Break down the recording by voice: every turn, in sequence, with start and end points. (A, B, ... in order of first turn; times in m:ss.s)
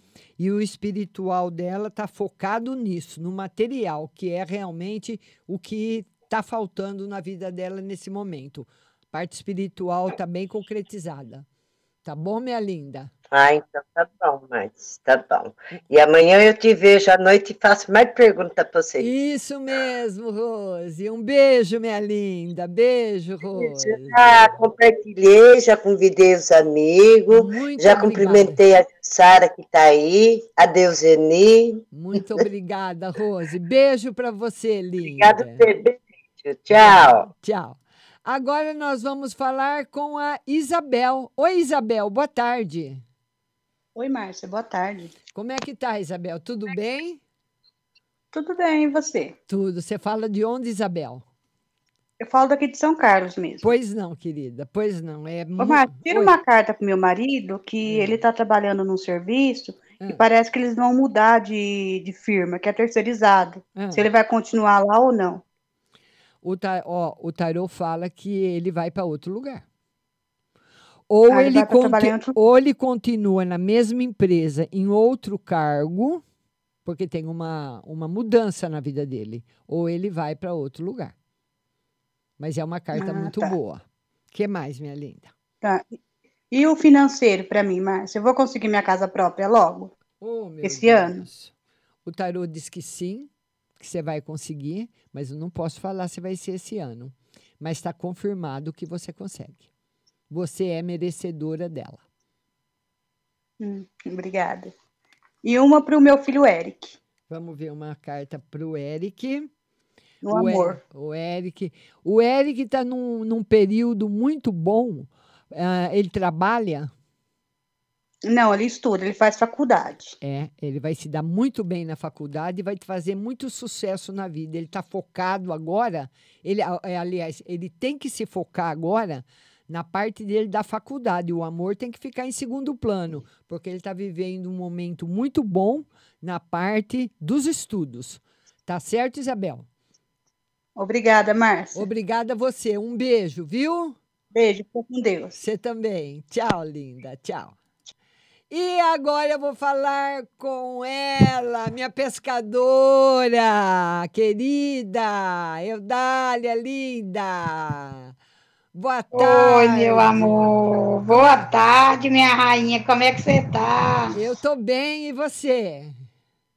0:00.4-0:11.4 A
0:12.0-0:13.1 A
0:13.3-0:19.1 B
0:19.0-0:24.5 A
0:23.6-0:31.8 B
0:27.3-0:28.6 A
0:31.9-0:35.6 A
0:35.0-0:37.3 B
0:36.7-0:43.0 A
0:43.9-0:45.2 C
0:45.3-0:47.2 A
0:48.3-0:49.4 C
0:49.5-0:51.2 A
0:52.2-0:53.6 C
0:53.6-0:56.4 A
0:55.6-1:05.4 C
0:57.8-0:58.2 A
1:00.0-1:00.2 A
1:03.7-1:04.1 A
1:06.4-1:09.6 A
1:11.1-1:16.2 A
1:11.3-1:12.4 C
1:16.8-1:21.1 A
1:22.4-1:25.3 A
1:22.9-1:23.5 C
1:25.6-1:26.0 C
1:26.5-1:29.9 C
1:30.2-1:31.5 A
1:30.6-1:31.2 C
1:32.0-1:33.3 A
1:33.8-1:39.6 A
1:40.3-1:42.0 A
1:43.6-1:44.7 C
1:45.4-1:47.0 C
1:47.3-1:49.5 A
1:50.2-1:50.8 C
1:50.3-1:56.9 A
1:58.3-2:00.1 C
2:00.2-2:19.6 A
2:20.8-2:21.8 C
2:21.8-2:24.0 A
2:24.3-2:25.4 C
2:25.3-2:27.5 A
2:28.5-2:38.1 A
2:38.7-2:40.5 A
2:39.1-2:44.2 D
2:41.1-2:41.5 A
2:44.1-2:46.0 A